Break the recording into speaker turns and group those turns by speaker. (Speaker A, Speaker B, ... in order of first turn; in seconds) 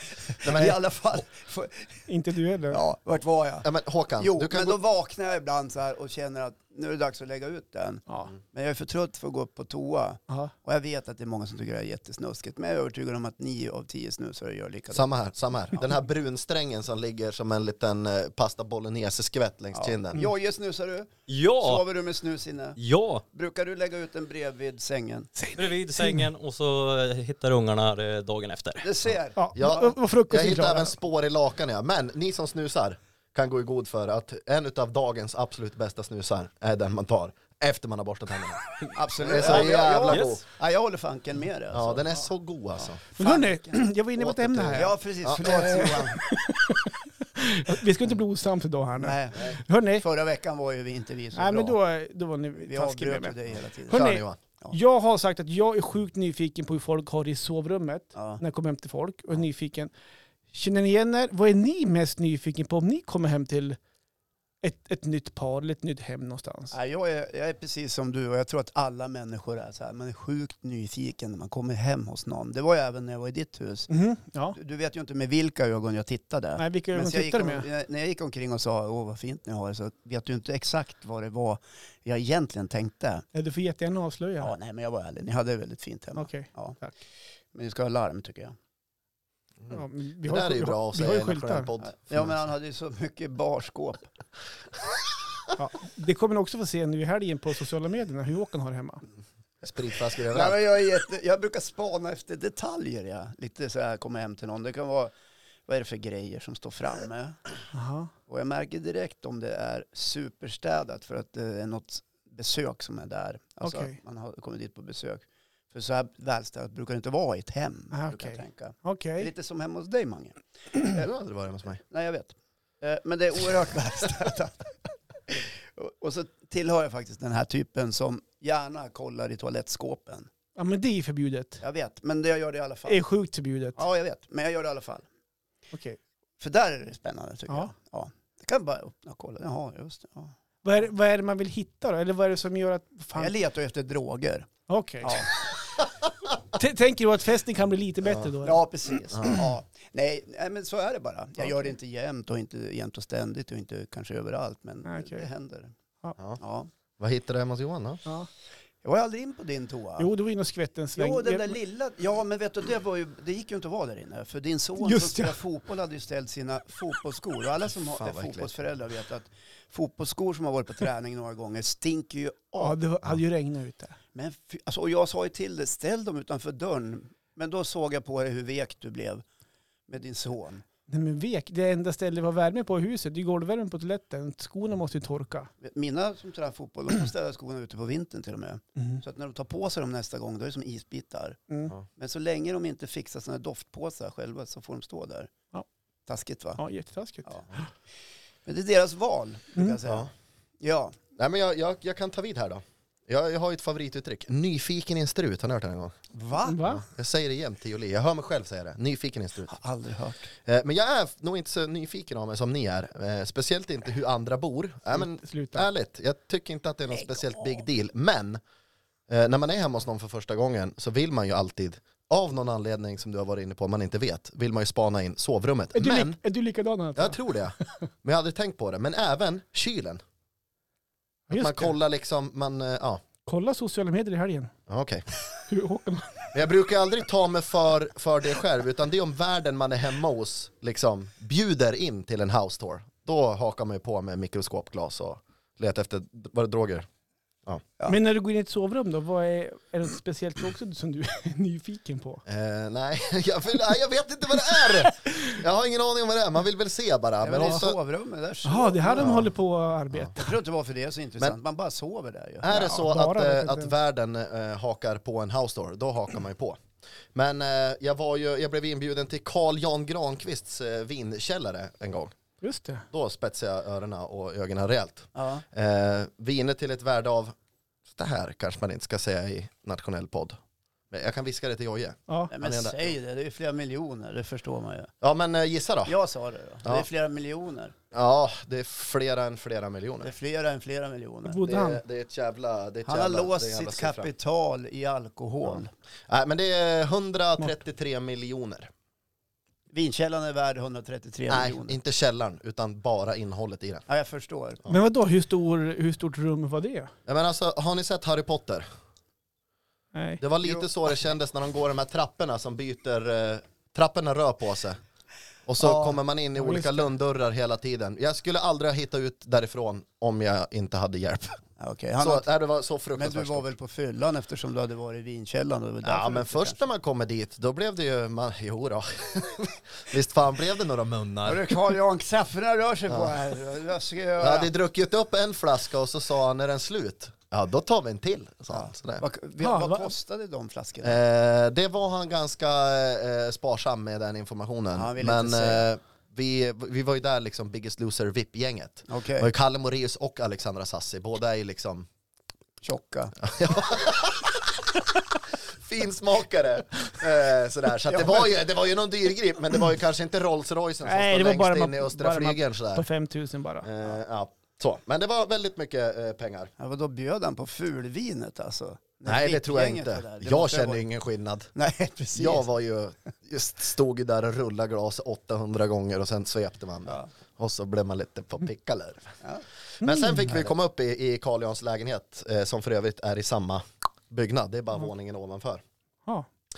Speaker A: 0.2-2.0, 2.7-3.7, 4.2-15.1, 19.7-22.8, 23.3-25.3, 28.8-29.4, 38.9-42.0, 42.8-43.8, 44.7-46.3, 49.0-51.8, 52.6-54.0, 58.1-58.4, 66.7-73.9, 74.5-83.2, 84.4-86.8, 87.5-88.5, 91.8-94.1, 100.3-105.1, 105.7-107.4, 108.3-121.1, 121.8-124.6, 125.3-130.3, 131.6-133.0, 133.8-135.1, 136.4-140.3, 143.2-144.5, 145.0-145.3, 148.4-155.7, 156.4-156.7, 158.8-160.1, 161.0-172.8, 174.1-179.2, 179.9-180.6, 185.6-195.3, 196.1-196.6, 198.4-201.0, 206.1-206.6, 209.5-210.3, 216.9-217.6, 257.2-259.2, 260.2-262.6, 275.1-275.4, 282.3-284.9, 285.9-287.7, 290.0-291.4, 292.9-295.7, 299.7-301.8, 303.9-304.6, 321.6-322.2, 322.9-326.6, 331.2-334.5, 338.5-341.0, 344.7-345.6, 348.9-349.3, 352.6-353.1, 357.9-358.3, 366.6-370.8, 371.5-372.4
Speaker B: 0.4-0.8, 3.6-4.8, 14.9-20.3, 29.5-40.4, 41.7-43.0, 44.1-45.9, 53.9-54.4, 89.6-92.3, 99.6-100.6, 120.9-121.8, 148.0-148.3, 149.1-149.4, 157.0-158.0, 167.9-168.6, 199.8-200.1, 201.2-206.0, 206.6-209.6, 210.4-218.4, 219.1-226.2, 226.9-230.0, 231.3-233.0, 234.7-235.0, 236.3-246.9, 252.2-257.8, 259.0-259.3, 262.4-266.6, 267.1-272.1, 272.9-277.3, 277.9-280.4, 280.9-282.9, 285.0-285.9, 287.9-290.1, 291.4-294.1, 295.4-298.7, 301.3-303.8, 307.1-308.7, 310.2-314.8, 315.5-321.4, 322.0-323.5, 325.8-331.7, 332.9-333.2, 334.2-339.0, 340.8-351.9, 353.2-354.6, 355.5-362.9, 363.6-366.5, 369.1-371.5, 372.1-379.1, 379.8-385.6
Speaker C: 2.1-2.8, 8.1-8.3, 25.4-26.3, 29.4-31.0, 43.2-50.0, 51.3-53.4, 53.9-59.9, 60.5-63.8, 64.6-66.7, 73.9-74.5, 76.6-77.7, 83.3-84.5, 86.2-86.9, 89.7-91.7, 95.5-99.0, 107.7-108.1, 113.6-114.0, 117.9-119.3, 130.6-131.6, 132.9-133.8, 135.7-136.0, 140.6-143.3, 144.7-145.3, 146.5-148.6, 154.8-155.2, 160.0-161.6, 164.8-165.4, 172.6-173.9, 180.9-185.5, 188.8-189.0, 196.6-197.6, 206.4-206.8, 214.9-215.7, 225.7-227.2, 231.3-231.8, 233.2-234.5, 235.5-236.3, 247.9-252.2, 258.4-260.4, 262.4-263.7, 272.4-272.8, 291.3-291.8, 304.7-306.9, 309.9-310.2, 316.3-316.9, 339.4-339.9, 360.8-363.7, 379.8-380.3
Speaker D: 21.3-21.8, 22.8-23.2, 25.6-28.9, 39.4-40.4